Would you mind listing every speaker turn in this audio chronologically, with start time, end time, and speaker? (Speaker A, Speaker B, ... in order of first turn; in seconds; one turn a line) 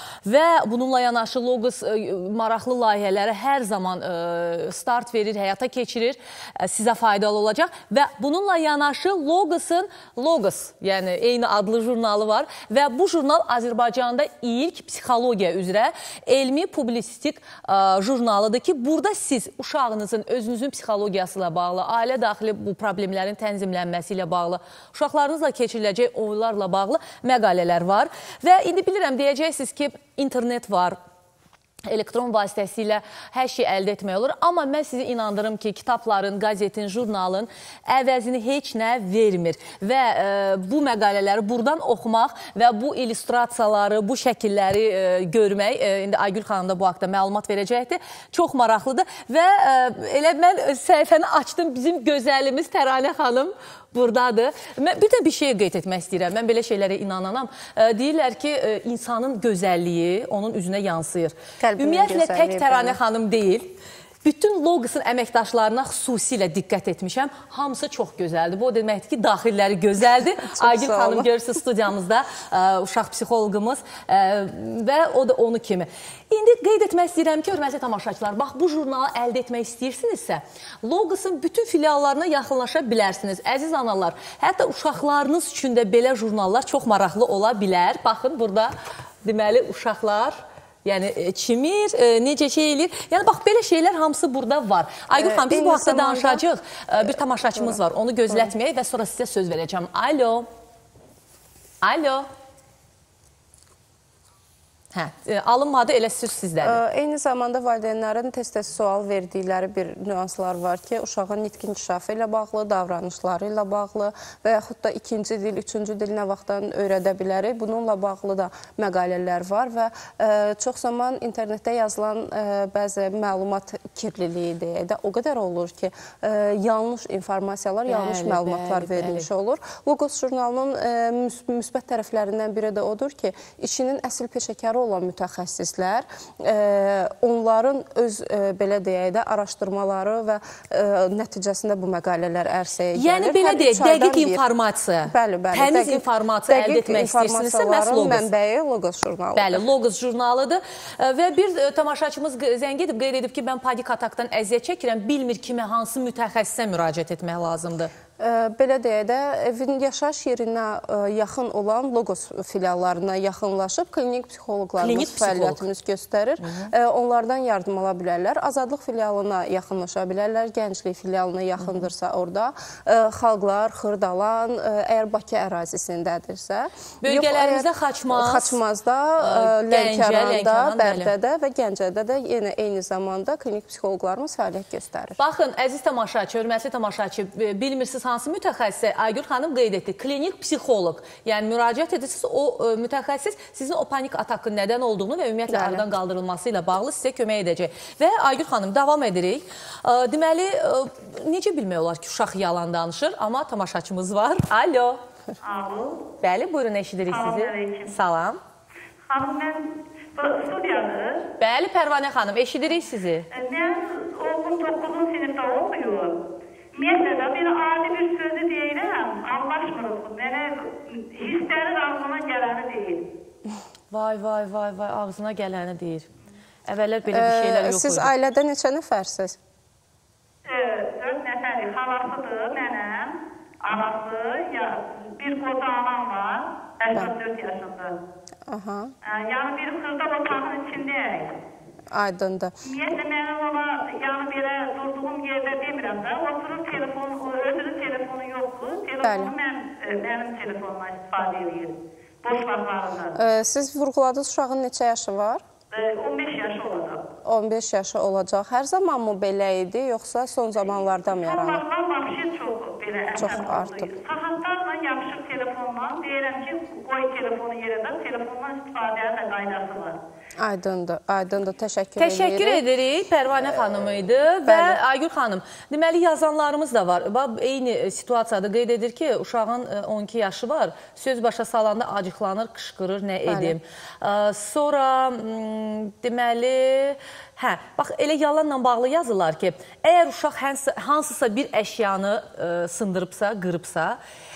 Speaker A: 0.2-31.0
Speaker A: 31.9-88.7
Speaker B: 61.6-63.0
Speaker B: 70.4-71.3
Speaker A: 89.2-100.5
Speaker B: 95.2-96.4
Speaker B: 97.0-98.5
Speaker A: 101.8-102.3
Speaker A: 104.9-106.8
Speaker B: 106.6-144.4
Speaker A: 127.9-129.3
Speaker A: 142.9-148.3
Speaker B: 145.1-149.6
Speaker A: 149.3-157.9
Speaker B: 158.2-185.2
Speaker A: 164.8-165.6
Speaker A: 166.4-166.7
Speaker A: 177.0-178.6
Speaker A: 179.2-181.1
Speaker A: 185.2-205.0
Speaker B: 195.5-195.9
Speaker C: 205.4-206.1
Speaker A: 206.2-208.4
Speaker C: 207.1-207.9
Speaker C: 209.1-211.3
Speaker A: 211.4-213.3
Speaker C: 213.3-216.2
Speaker C: 216.7-223.1
Speaker A: 223.9-226.1
Speaker A: 226.7-228.1
Speaker B: 227.1-229.4
Speaker C: 230.5-238.0
Speaker B: 238.5-238.9
Speaker C: 239.0-241.4
Speaker B: 241.9-242.6
Speaker C: 242.6-253.2
Speaker B: 249.0-249.3
Speaker B: 253.2-255.4
Speaker C: 255.7-257.0
Speaker B: 257.3-261.6
Speaker C: 261.1-270.0
Speaker B: 263.1-263.9
Speaker B: 270.4-272.6
Speaker A: 272.0-294.0
Speaker B: 274.5-274.8
Speaker B: 283.3-283.6